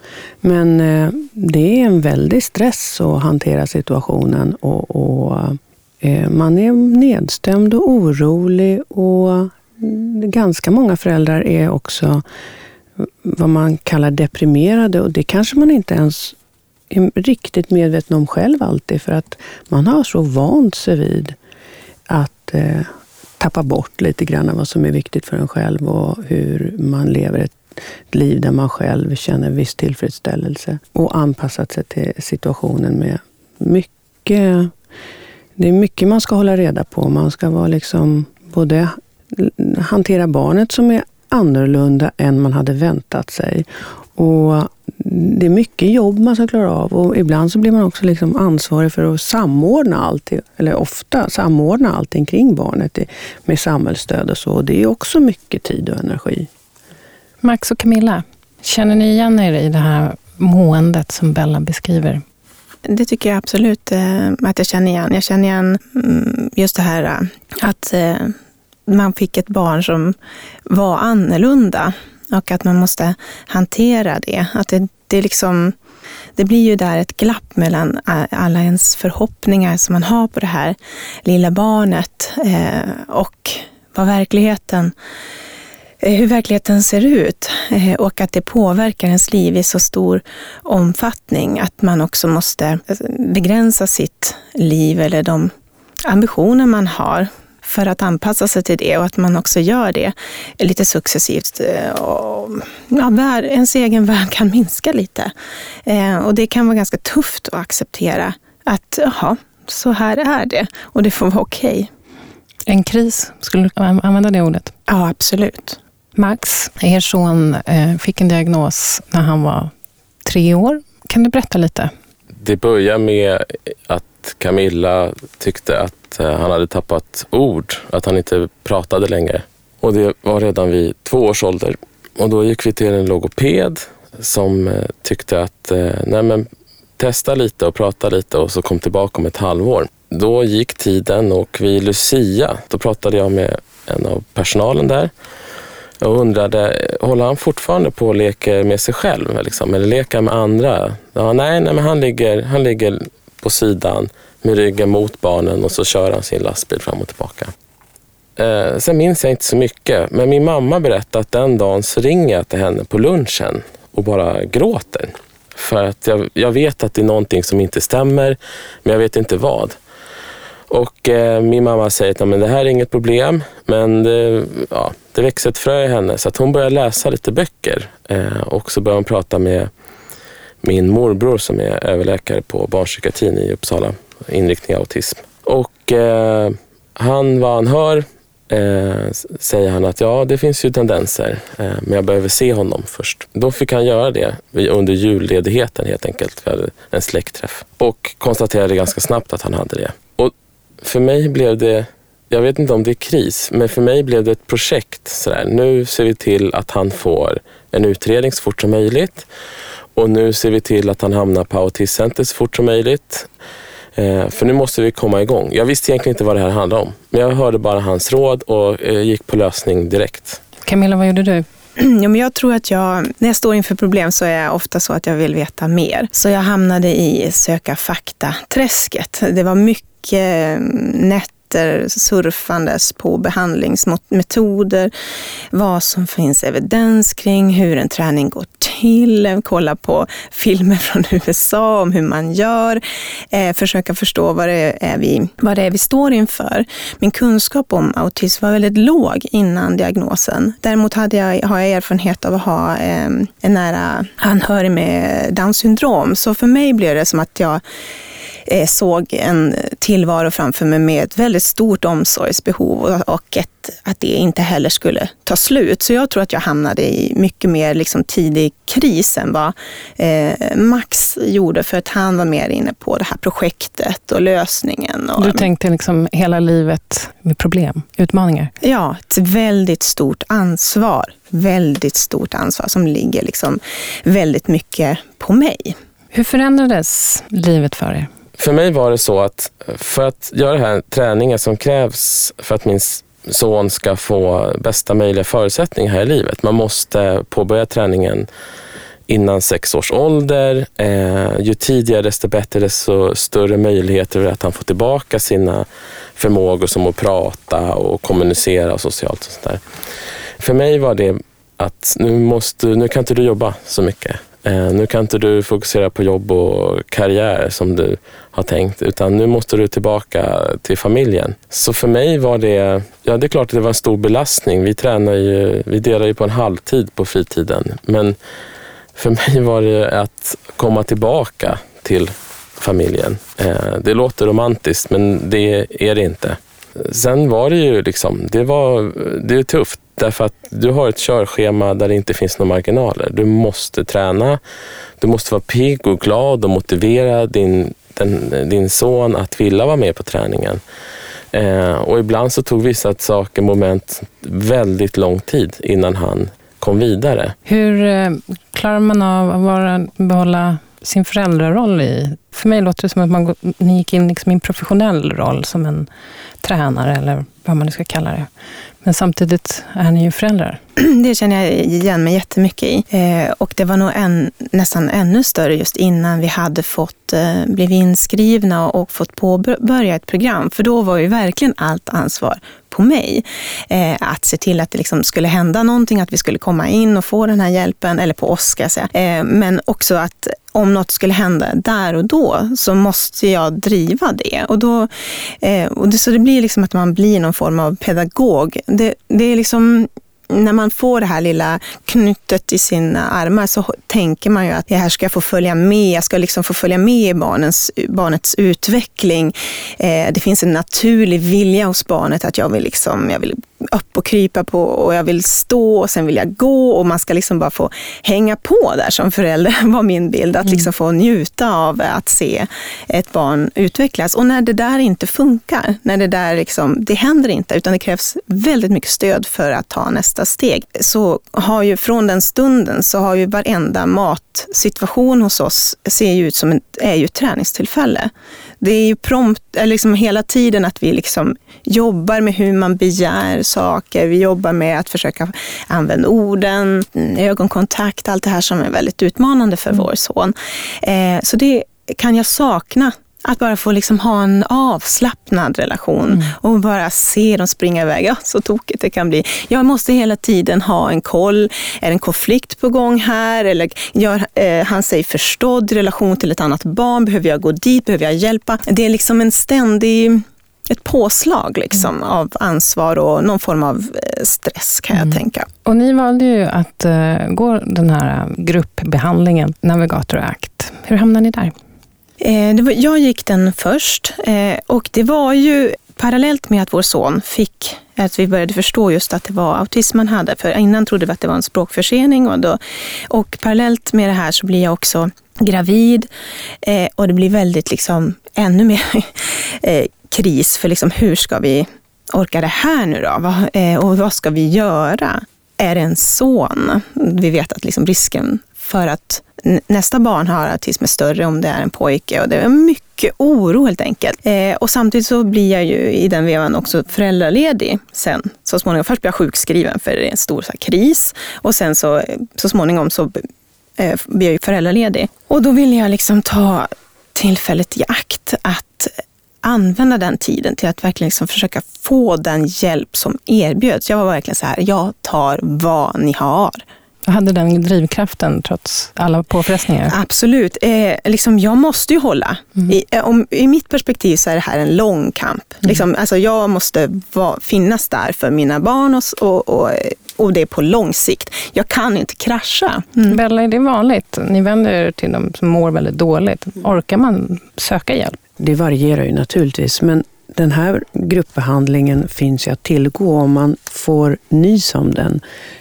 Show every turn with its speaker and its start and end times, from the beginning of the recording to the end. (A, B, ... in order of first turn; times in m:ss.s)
0:00.4-0:12.2 A
0:13.0-0:16.4 A
0:16.9-0:21.4 A
0:22.1-0:27.6 A
0:28.1-0:34.7 A
0:35.6-0:56.5 A
0:57.4-1:02.2 B
1:02.9-1:08.3 C
1:08.9-1:10.2 C
1:10.7-1:15.8 C
1:16.4-1:24.9 C
1:26.0-1:35.5 C
1:36.0-1:45.3 C
1:45.9-1:51.9 C
1:52.7-1:54.7 B
1:54.9-1:55.8 C
1:56.2-1:59.7 B
2:00.2-2:01.9 B
2:02.4-2:16.5 D
2:17.0-2:25.1 D
2:26.0-2:37.5 D
2:38.4-2:49.8 D
2:50.7-2:59.7 D
3:00.6-3:29.3 D
3:30.0-3:33.3 D
3:34.0-3:40.4 D
3:40.6-3:41.5 B
3:41.8-3:54.9 C
3:55.5-4:02.8 C
4:03.3-4:17.6 C
4:18.5-4:35.5 C
4:35.2-4:38.5 B
4:38.6-4:45.8 C
4:46.1-4:48.1 B
4:48.4-4:58.3 D
4:59.1-5:05.7 D
5:06.2-5:09.6 D
5:10.4-5:28.2 D
5:29.0-5:44.4 D
5:45.0-5:50.6 D
5:51.3-5:57.4 D
5:57.5-6:05.9 B
6:06.4-6:08.3 B
6:08.8-6:10.6 B
6:10.8-7:55.5 C
7:55.0-8:01.5 B
8:02.2-8:16.1 C
8:16.6-8:43.2 C
8:43.8-8:56.6 C
8:57.1-9:00.0 B
8:59.9-9:13.2 C
9:13.1-9:18.2 B
9:18.4-9:25.2 A